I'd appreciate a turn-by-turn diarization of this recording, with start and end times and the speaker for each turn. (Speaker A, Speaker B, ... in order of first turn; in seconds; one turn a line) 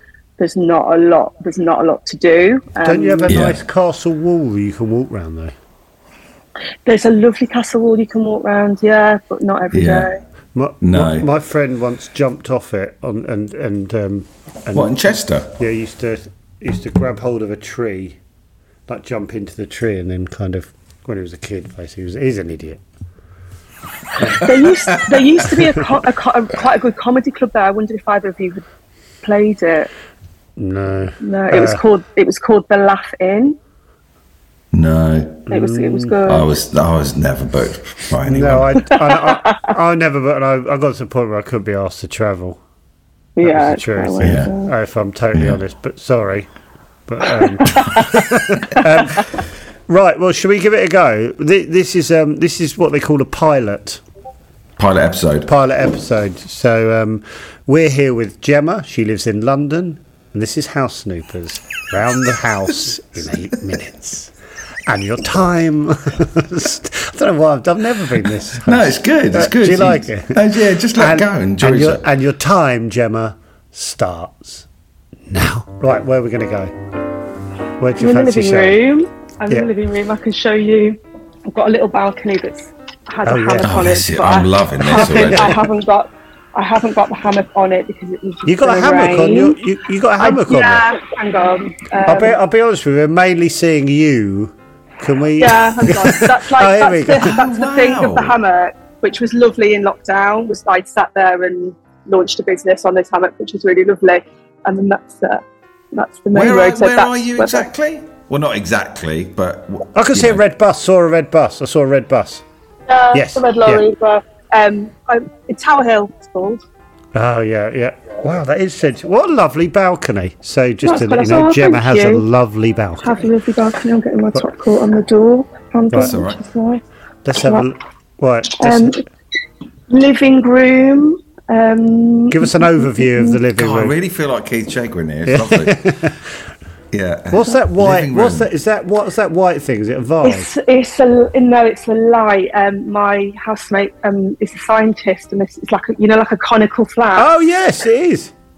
Speaker A: 0.4-3.4
Speaker B: 2.8-5.5
Speaker C: 3.3-3.6
Speaker A: 6.9-10.2
Speaker C: 9.7-10.1
Speaker B: 10.6-15.0
Speaker C: 10.8-11.3
Speaker C: 14.7-15.5
Speaker B: 15.5-18.2
Speaker B: 18.9-22.8
Speaker A: 24.4-28.6
Speaker A: 29.2-29.9
Speaker B: 30.6-31.8
Speaker A: 31.2-33.6
Speaker C: 34.7-35.5
Speaker B: 35.5-36.2
Speaker A: 35.5-36.5
Speaker C: 36.3-38.8
Speaker B: 38.2-42.6
Speaker A: 38.9-39.7
Speaker A: 43.4-44.7
Speaker B: 43.4-46.5
Speaker C: 44.2-44.5
Speaker C: 45.3-45.6
Speaker B: 47.1-49.3
Speaker A: 47.6-48.2
Speaker A: 48.8-49.2
Speaker B: 49.9-54.0
Speaker C: 54.8-55.5
Speaker B: 55.5-64.3
Speaker B: 64.9-70.4
Speaker C: 68.6-72.0
Speaker B: 71.0-74.7
Speaker B: 75.3-76.7
Speaker B: 77.8-78.8
Speaker A: 78.0-89.6
Speaker B: 83.2-83.8
Speaker C: 83.7-85.6
Speaker B: 84.9-85.5
Speaker B: 88.5-90.9
Speaker A: 90.2-92.4
Speaker B: 92.1-97.3
Speaker A: 95.4-105.4
Speaker C: 97.2-98.4
Speaker A: 105.9-107.7
Speaker C: 106.3-110.4
Speaker B: 110.0-112.4
Speaker A: 112.9-116.6
Speaker B: 113.1-113.8
Speaker B: 117.2-123.3
Speaker A: 120.8-122.2
Speaker A: 123.0-126.8
Speaker C: 126.0-126.4
Speaker B: 127.2-129.0
Speaker A: 127.4-127.7
Speaker A: 128.6-129.0
Speaker A: 129.9-133.4
Speaker B: 132.3-134.0
Speaker C: 133.6-135.9
Speaker B: 135.3-136.3
Speaker C: 136.9-138.5
Speaker B: 137.3-140.5
Speaker A: 140.2-147.3
Speaker B: 147.2-148.3